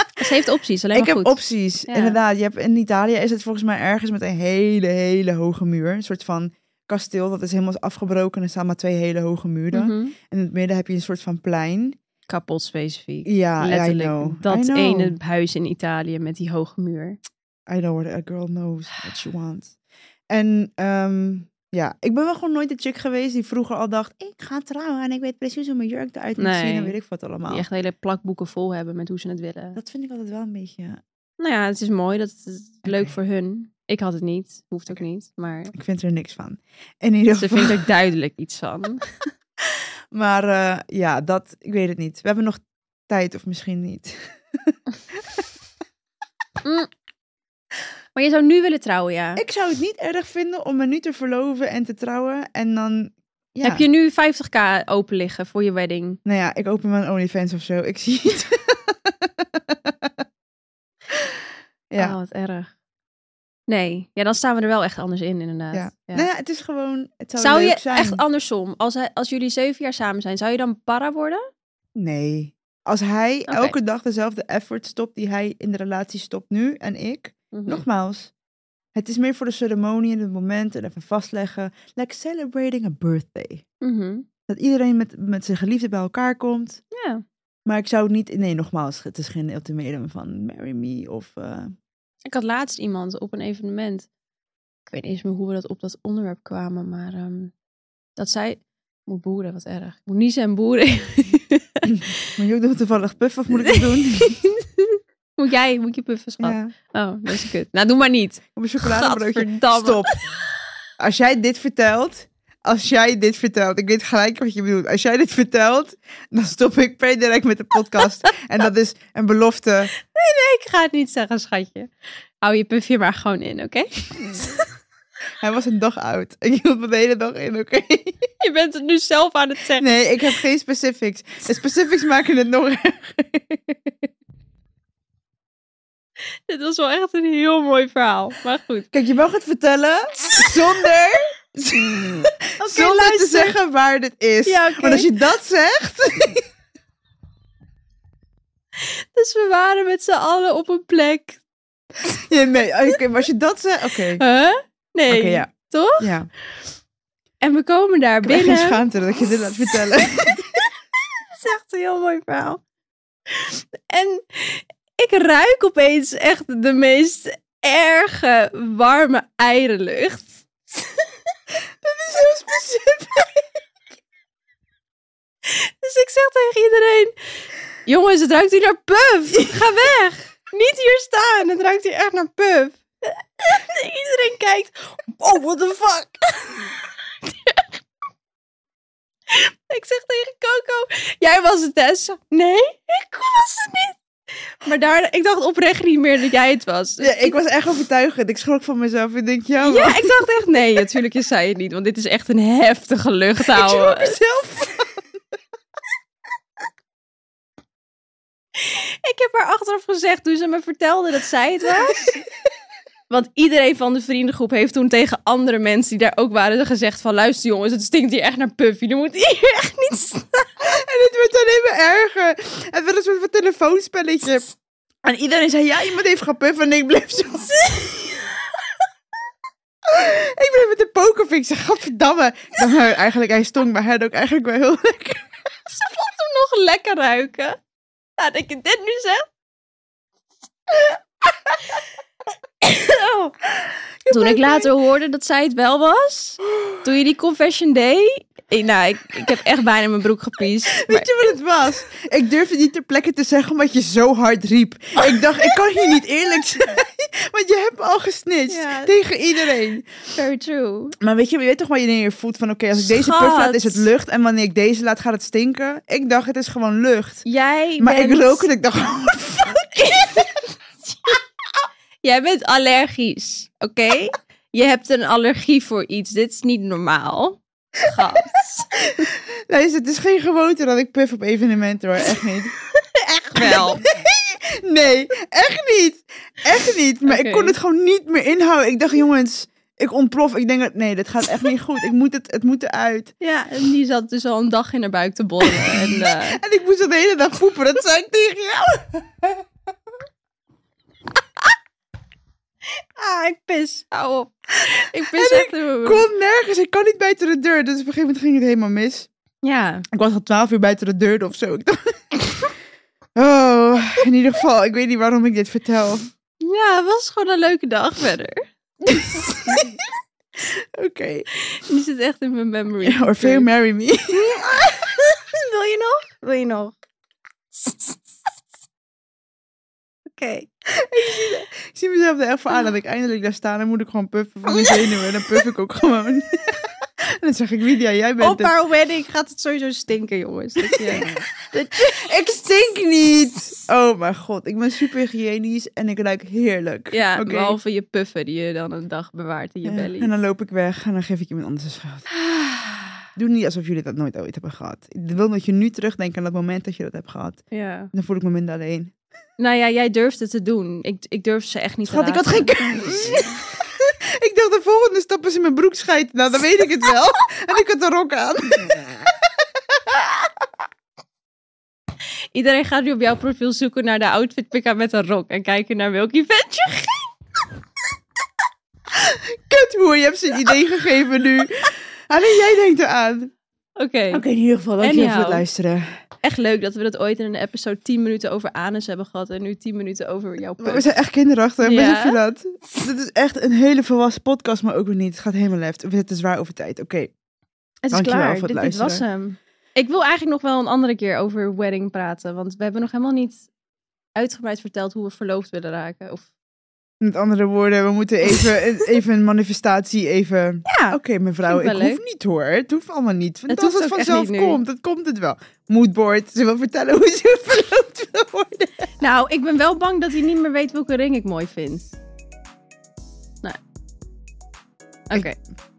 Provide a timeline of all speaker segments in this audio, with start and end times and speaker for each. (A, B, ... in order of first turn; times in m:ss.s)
0:00.2-0:02.2 A
0:00.9-0:12.0 B
0:09.7-0:10.2 A
0:12.3-0:17.2 A
0:13.3-0:15.2 B
0:17.7-0:19.8 B
0:20.3-0:27.7 B
0:26.4-0:27.0 A
0:27.5-0:29.8 A
0:29.8-0:31.0 B
0:31.4-0:35.7 A
0:32.8-0:33.1 B
0:35.7-0:37.8 B
0:37.4-0:39.0 A
0:40.1-0:45.4 B
0:46.6-0:46.9 A
0:48.2-0:49.4 A
0:49.4-0:53.8 B
0:53.6-0:56.2 A
0:56.2-1:00.1 B
1:01.1-1:02.2 B
1:02.0-1:02.7 A
1:03.7-1:06.3 A
1:05.7-1:08.2 B
1:07.4-1:11.5 A
1:12.0-1:18.3 B
1:13.5-1:13.8 A
1:17.5-1:17.8 A
1:19.0-1:23.6 B
1:23.8-1:24.3 A
1:24.5-1:26.8 B
1:26.9-1:27.2 A
1:27.7-1:31.7 B
1:32.2-1:34.1 A
1:34.9-1:37.5 A
1:38.2-1:42.4 A
1:41.9-1:44.4 B
1:43.5-1:50.2 A
1:46.4-1:46.7 B
1:48.6-1:50.2 B
1:51.0-1:59.9 B
2:00.1-2:01.9 A
2:02.4-2:04.4 A
2:05.4-2:08.2 B
2:08.4-2:09.9 A
2:09.8-2:14.1 B
2:16.5-2:18.9 A
2:18.9-2:26.4 B
2:22.6-2:23.6 A
2:24.4-2:25.1 A
2:28.8-2:31.4 A
2:32.3-2:34.2 B
2:34.2-2:36.2 A
2:35.1-2:36.3 B
2:37.4-2:38.8 A
2:38.2-2:40.6 B
2:41.3-2:42.6 A
2:43.3-2:50.9 A
2:51.8-2:53.4 B
2:55.4-2:57.1 A
2:57.8-3:07.8 A
3:09.3-3:14.0 A
3:14.6-3:17.4 A
3:17.0-3:20.2 B
3:19.6-3:24.2 A
3:23.5-3:25.0 B
3:28.6-3:32.2 A
3:31.8-3:32.1 B
3:33.1-3:40.6 A
3:40.6-3:44.5 B
3:45.0-3:47.8 B
3:49.9-3:55.3 B
3:55.7-3:57.6 A
3:58.2-3:59.3 A
4:02.6-4:03.3 A
4:04.0-4:04.7 B
4:04.1-4:11.1 A
4:10.8-4:19.9 B
4:18.5-4:18.9 A
4:20.2-4:21.0 A
4:21.0-4:27.2 B
4:22.8-4:23.9 A
4:27.2-4:28.5 A
4:27.8-4:30.3 B
4:29.5-4:30.3 A
4:32.0-4:38.7 A
4:39.0-4:42.6 B
4:42.8-4:43.9 A
4:43.4-4:53.1 B
4:47.0-4:47.6 A
4:53.2-4:56.4 A
4:55.6-4:59.4 B
5:03.0-5:06.0 A
5:05.1-5:09.1 B
5:09.4-5:09.8 A
5:09.9-5:12.2 B
5:13.2-5:16.1 B
5:16.4-5:18.4 A
5:18.9-5:19.8 B
5:20.4-5:21.3 B
5:21.5-5:23.5 A
5:22.8-5:24.8 B
5:24.1-5:26.8 A
5:27.6-5:28.0 A
5:30.2-5:30.5 A
5:30.7-5:38.5 B
5:34.5-5:35.3 A
5:38.2-5:41.9 A
5:40.7-5:47.6 B
5:46.9-5:50.1 A
5:49.7-5:52.1 B
5:52.3-5:53.0 A
5:53.2-5:58.9 B
5:57.5-5:57.9 A
5:59.4-6:03.4 A
6:01.9-6:03.4 B
6:04.2-6:10.3 B
6:12.3-6:17.1 A
6:18.9-6:23.3 B
6:23.8-6:24.2 A
6:24.1-6:26.0 B
6:24.8-6:25.4 A
6:26.2-6:30.9 A
6:30.6-6:37.1 B
6:31.6-6:32.2 A
6:37.8-6:43.5 A
6:37.9-6:39.0 B
6:44.2-6:46.3 A
6:47.0-6:58.9 B
6:50.7-6:52.0 A
6:53.5-6:54.6 A
6:59.0-7:02.0 A
7:05.1-7:05.4 A